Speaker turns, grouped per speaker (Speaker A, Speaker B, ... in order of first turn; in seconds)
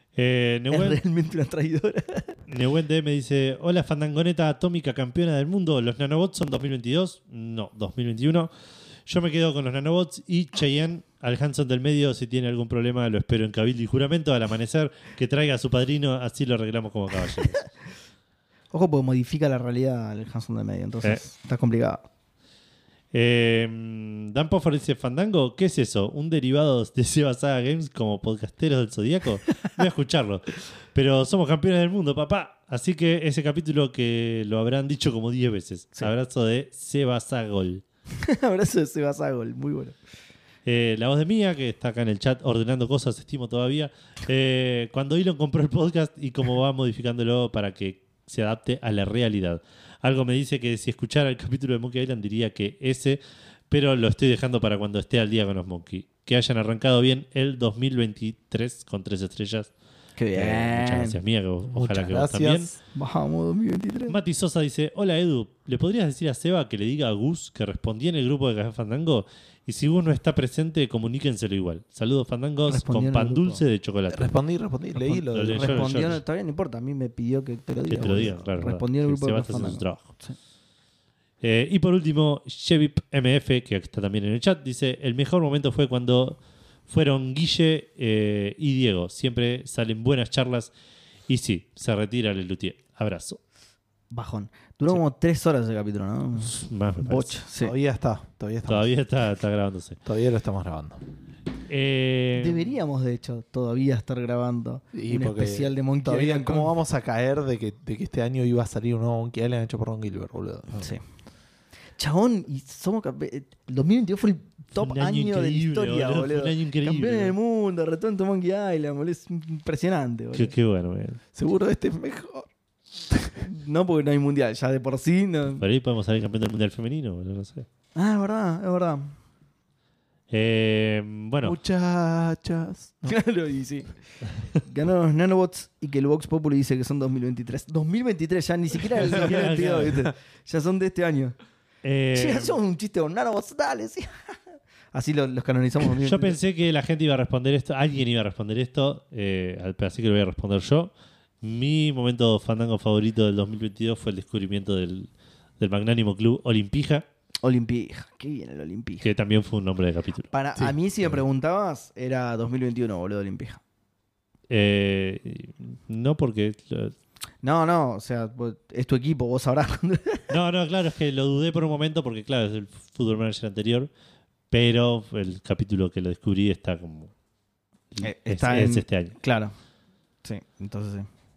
Speaker A: 0.1-1.0, 2.5-8.5, 9.1-17.6, 23.1-37.8, 40.6-59.7, 60.4-62.7, 64.1-74.3, 75.0-76.2, 77.9-80.1, 81.4-90.7, 91.3-93.4, 96.5-97.4, 98.7-100.0, 101.7-102.7, 114.8-117.3, 120.3-121.2, 125.6-127.7, 130.3-131.6, 139.0-140.0, 141.8-142.6, 145.9-150.9, 151.4-155.1, 155.6-157.0, 159.0-160.3, 164.5-166.9, 170.3-173.9, 174.5-177.1, 177.9-179.1
Speaker B: 0.7-2.4, 18.7-22.0, 38.1-39.9, 60.2-61.2, 62.9-64.2, 72.7-73.6, 75.5-80.3, 94.1-97.7, 102.3-106.7, 112.0-120.5, 123.4-125.6, 127.9-129.1, 133.1-133.9, 134.5-141.3, 142.1-144.3, 144.9-146.4, 157.4-159.1, 160.3-163.6, 167.4-170.3, 178.0-179.5, 180.2-181.1
Speaker C: 61.7-62.8, 74.1-76.1, 97.6-98.9, 100.0-101.0, 104.9-111.0, 121.3-122.5, 123.1-123.4, 131.4-133.1, 160.6-161.2